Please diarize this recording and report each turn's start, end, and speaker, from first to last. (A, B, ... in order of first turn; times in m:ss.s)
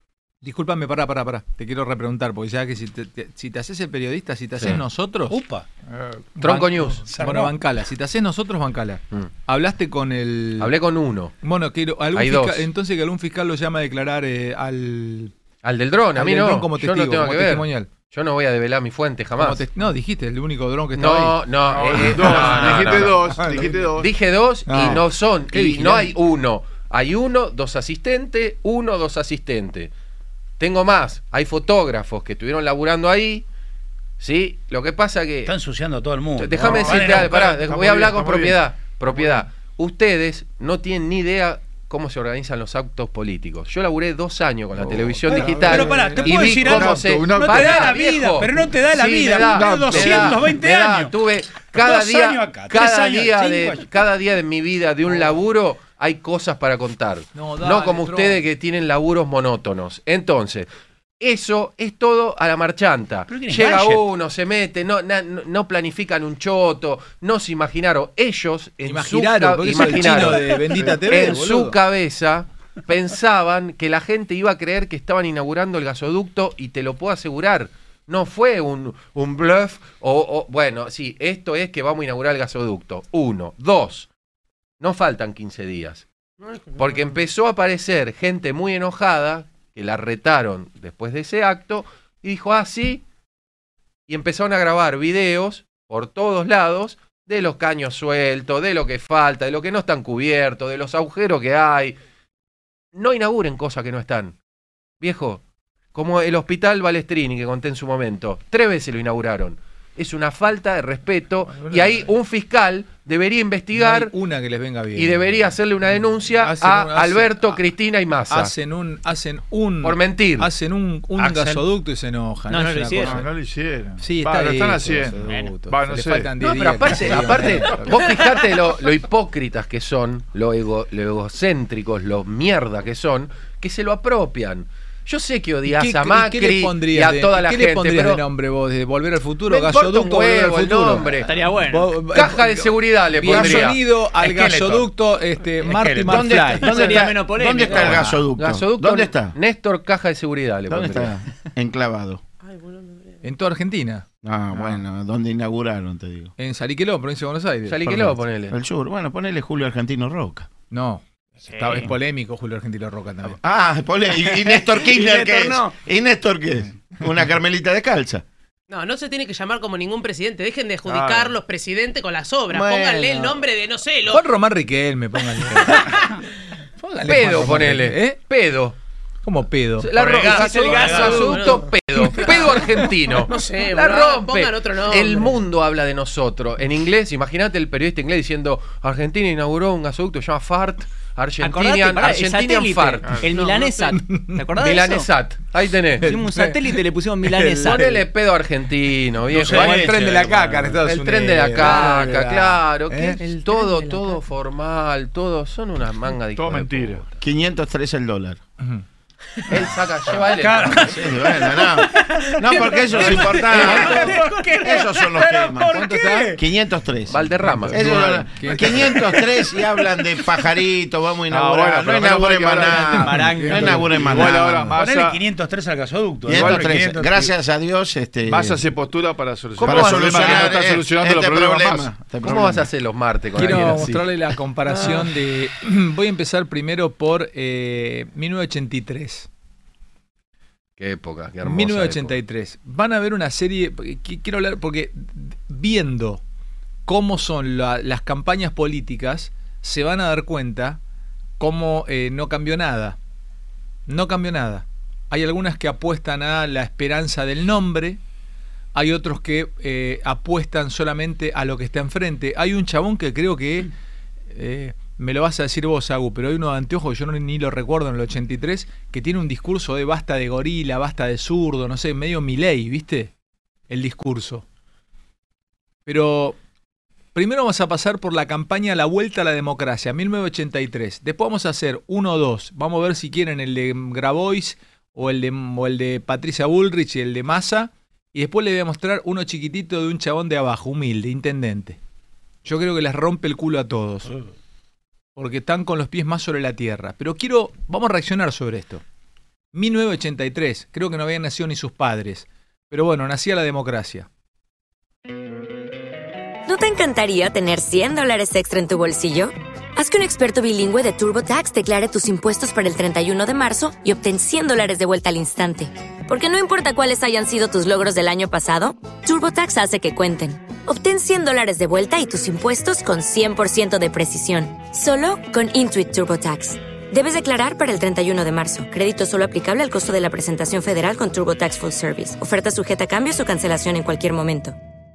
0:00.4-0:05.4 A
0:05.3-0:05.6 B
0:05.9-0:06.2 C
0:06.4-0:07.1 D
0:06.4-0:10.7 A
0:07.1-0:07.5 B
0:10.6-0:11.3 D
0:11.4-0:15.3 A
0:12.1-0:12.6 D
0:15.6-0:19.6 D
0:16.2-0:17.9 A
0:19.4-0:23.8 A
0:21.0-0:23.4 D
0:21.7-0:24.1 C
0:24.0-0:29.9 D
0:24.7-0:26.1 A
0:30.6-0:33.4 D
0:34.2-0:35.5 D
0:35.4-0:37.4 B
0:36.4-1:24.1 D
0:36.6-0:39.4 C
0:44.8-0:47.9 C
0:45.3-0:51.1 B
0:45.3-0:46.2 A
0:49.4-0:50.4 C
0:51.7-0:53.9 B
0:57.3-0:58.4 A
1:03.3-1:04.0 B
1:08.8-1:11.8 A
1:24.8-1:26.0 D
1:26.4-1:27.2 E
1:26.8-1:33.0 D
1:34.1-1:42.0 D
1:42.9-1:44.4 D
1:45.0-1:45.4 D
1:45.9-1:54.1 D
1:53.7-1:55.4 A
1:55.0-1:58.5 D
1:56.3-1:57.6 A
1:58.3-2:03.3 A
1:59.8-2:00.5 D
2:01.2-2:01.6 B
2:02.5-2:03.2 F
2:03.0-2:06.3 C
2:04.0-2:08.0 A
2:06.4-2:18.2 D
2:15.7-2:27.0 A
2:19.5-2:21.3 D
2:21.2-2:21.9 F
2:22.1-2:23.8 D
2:24.2-2:24.9 B
2:25.6-2:26.6 B
2:26.0-2:29.3 G
2:26.7-2:28.2 F
2:27.7-2:28.2 A
2:28.4-2:31.1 D
2:30.7-2:32.2 G
2:32.4-2:33.2 E
2:33.2-2:34.7 A
2:34.2-2:36.3 G
2:36.4-2:38.2 A
2:37.7-2:38.6 D
2:38.5-2:40.5 G
2:40.7-2:43.4 A
2:41.5-2:41.9 B
2:43.4-2:48.2 G
2:48.7-2:54.2 E
2:50.9-2:51.3 C
2:52.5-2:53.4 G
2:54.1-2:55.8 A
2:56.8-2:58.2 A
2:57.0-2:58.8 D
2:59.2-3:01.0 A
2:59.8-3:13.3 D
3:00.0-3:01.4 B
3:00.3-3:02.6 E
3:03.2-3:05.4 E
3:11.4-3:15.1 F
3:13.0-3:13.3 C
3:13.4-3:13.9 E
3:13.9-3:14.4 A
3:14.6-3:16.1 D
3:16.0-3:17.9 A
3:16.0-3:18.0 F
3:17.6-3:27.1 D
3:19.3-3:20.7 B
3:19.3-3:23.2 A
3:23.2-3:24.2 E
3:26.3-3:27.0 C
3:27.2-3:28.4 G
3:29.5-3:30.9 D
3:30.3-3:30.9 B
3:30.7-3:44.6 G
3:32.3-3:33.2 E
3:32.9-3:33.3 C
3:33.5-3:36.4 B
3:33.6-3:34.0 A
3:35.7-3:36.4 A
3:37.1-3:37.9 D
3:37.4-3:39.1 A
3:41.3-3:43.2 C
3:42.9-3:44.8 A
3:43.0-3:43.8 F
3:43.9-3:45.2 C
3:44.8-3:47.3 B
3:46.3-3:46.9 C
3:46.3-3:48.6 G
3:48.3-3:52.0 C
3:49.6-3:50.5 D
3:49.6-3:52.7 G
3:52.2-3:54.0 D
3:53.4-3:59.3 A
4:00.8-4:02.2 D
4:01.4-4:06.2 A
4:06.8-4:10.8 A
4:11.4-4:13.0 A
4:13.9-4:18.0 A
4:18.7-4:23.7 A
4:24.3-4:33.1 A
4:33.7-4:34.4 A
4:35.8-4:36.4 A
4:37.1-4:51.8 A
4:52.4-4:54.1 A
4:55.2-4:58.8 A
4:59.5-5:04.1 A
5:06.4-5:34.6 H